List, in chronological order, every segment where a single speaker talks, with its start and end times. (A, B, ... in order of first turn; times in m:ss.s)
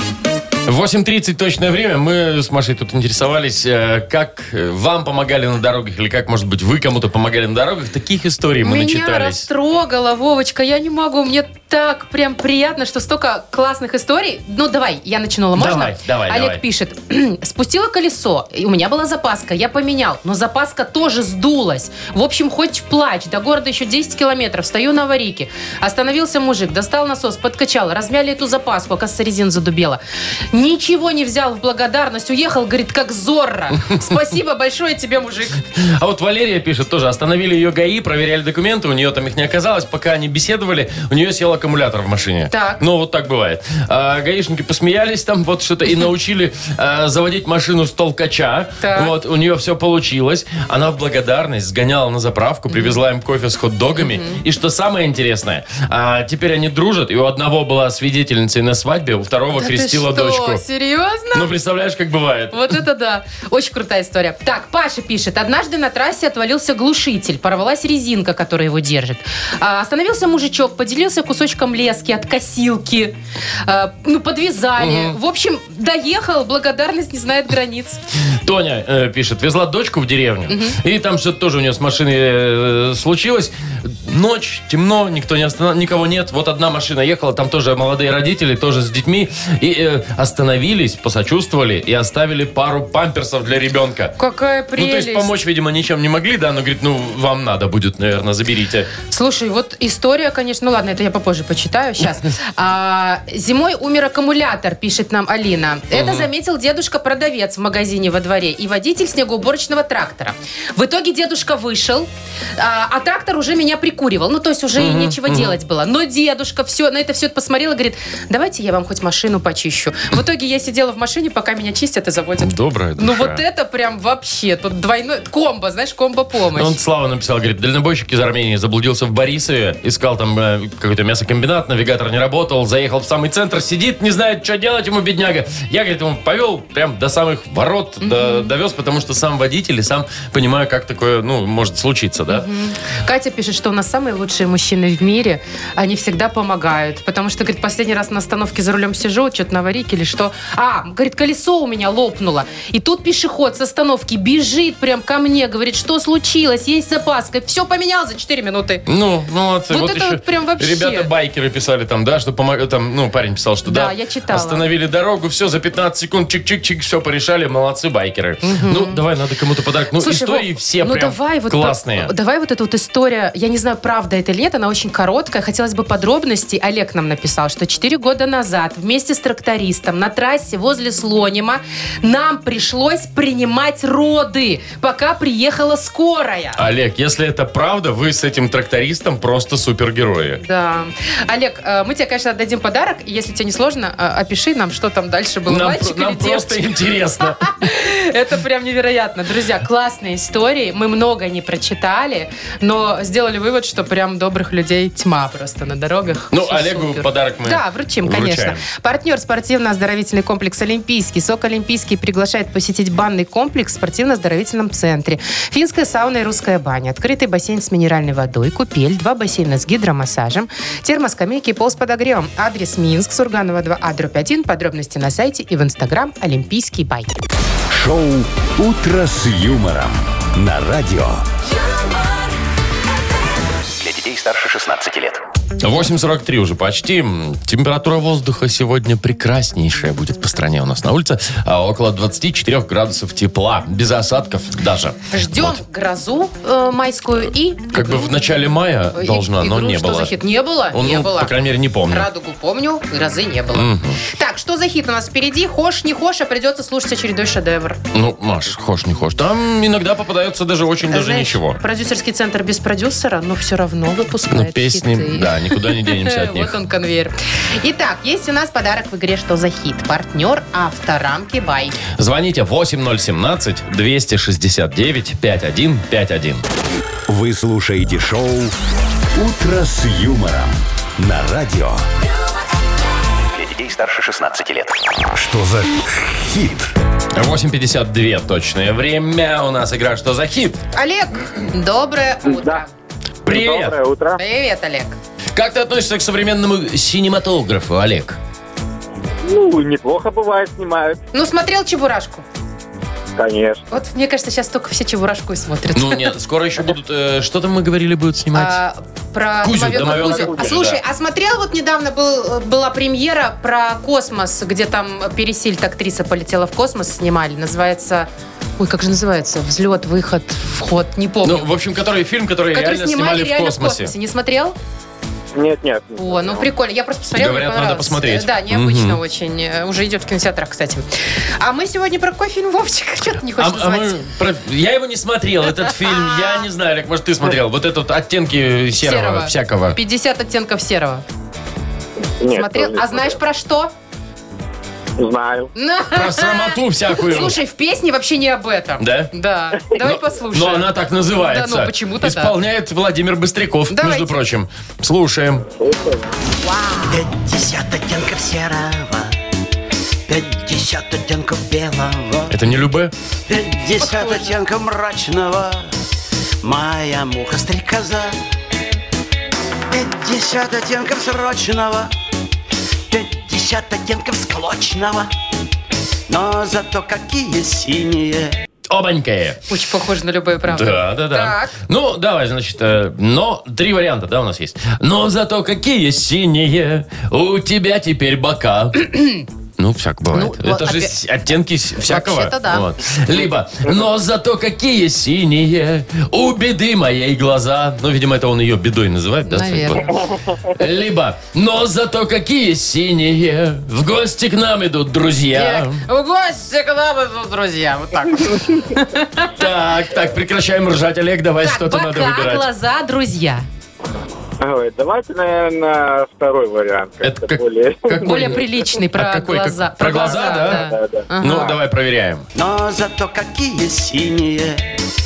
0:00.6-0:09.4 A
0:08.6-0:30.0 B
0:15.6-0:16.6 A
0:30.5-0:35.6 B
0:35.8-1:00.6 A
0:42.5-0:42.8 B
0:48.8-0:49.1 B
0:52.7-0:53.0 B
0:54.0-0:54.4 B
0:59.6-1:01.5 B
1:01.3-1:02.7 A
1:02.5-1:18.0 B
1:14.8-1:15.2 A
1:18.4-1:34.1 A
1:20.5-1:20.8 B
1:34.2-1:35.3 B
1:34.8-1:38.9 A
1:39.1-2:06.8 B
1:45.9-1:46.3 A
1:54.8-1:55.6 A
2:02.4-2:03.4 A
2:06.5-2:22.4 A
2:18.0-2:18.5 B
2:22.3-2:38.8 B
2:38.9-2:52.1 A
2:39.7-2:41.1 B
2:43.6-2:44.6 B
2:48.4-2:49.0 B
2:50.0-3:06.6 B
3:06.6-3:10.4 A
3:10.4-3:47.1 B
3:15.5-3:17.5 A
3:26.3-3:28.6 A
3:47.7-3:51.2 C
3:53.8-3:55.2 D
3:55.6-4:05.6 A
4:05.1-4:08.3 B
4:07.7-4:10.2 A
4:08.9-4:11.3 B
4:10.7-4:12.1 A
4:11.9-4:17.8 B
4:13.5-4:14.0 A
4:17.9-4:21.6 A
4:20.9-4:31.8 B
4:24.3-4:26.5 A
4:32.0-4:36.4 A
4:37.1-4:38.5 C
4:39.1-4:41.8 C
4:43.3-4:44.8 D
4:45.1-4:46.7 C
4:47.1-4:50.6 A
4:50.7-4:52.7 B
4:52.2-4:52.6 E
4:53.2-4:53.8 A
4:53.3-4:54.2 E
4:54.2-4:55.0 B
4:55.3-4:58.2 A
4:59.2-5:01.0 E
5:01.1-5:02.2 B
5:03.2-5:03.6 E
5:03.7-5:06.1 B
5:05.7-5:08.6 A
5:08.3-5:21.5 B
5:09.4-5:10.8 A
5:09.9-5:10.5 E
5:21.2-5:23.9 A
5:22.5-5:24.6 B
5:25.3-5:26.4 E
5:26.0-5:30.9 B
5:27.1-5:29.0 A
5:31.4-5:34.0 B
5:33.4-5:39.8 A
5:35.6-5:36.4 B
5:38.8-5:41.0 B
5:42.2-5:43.2 E
5:42.3-5:43.7 B
5:45.0-5:45.5 E
5:45.5-5:52.3 B
5:45.9-5:47.4 A
5:48.8-5:49.1 A
5:49.7-5:55.4 A
5:53.7-5:54.2 B
5:55.6-5:56.1 E
5:56.4-5:56.9 B
5:56.8-5:59.1 F
6:00.1-6:02.4 F
6:02.3-6:02.9 A
6:03.3-6:05.7 F
6:03.8-6:04.3 B
6:06.4-6:08.1 F
6:09.7-6:11.9 F
6:12.9-6:15.1 F
6:16.1-6:18.4 F
6:18.7-6:19.4 A
6:19.5-6:21.6 B
6:20.5-6:39.9 A
6:30.1-6:30.9 B
6:31.8-6:32.7 B
6:39.2-6:39.9 B
6:40.5-6:45.8 A
6:45.3-6:49.3 B
6:49.4-6:52.4 A
6:51.4-6:53.4 B
6:54.4-6:58.2 E
6:57.0-7:00.7 A
6:58.0-7:01.5 B
7:00.3-7:01.4 E
7:01.2-7:02.2 A
7:02.3-7:04.7 F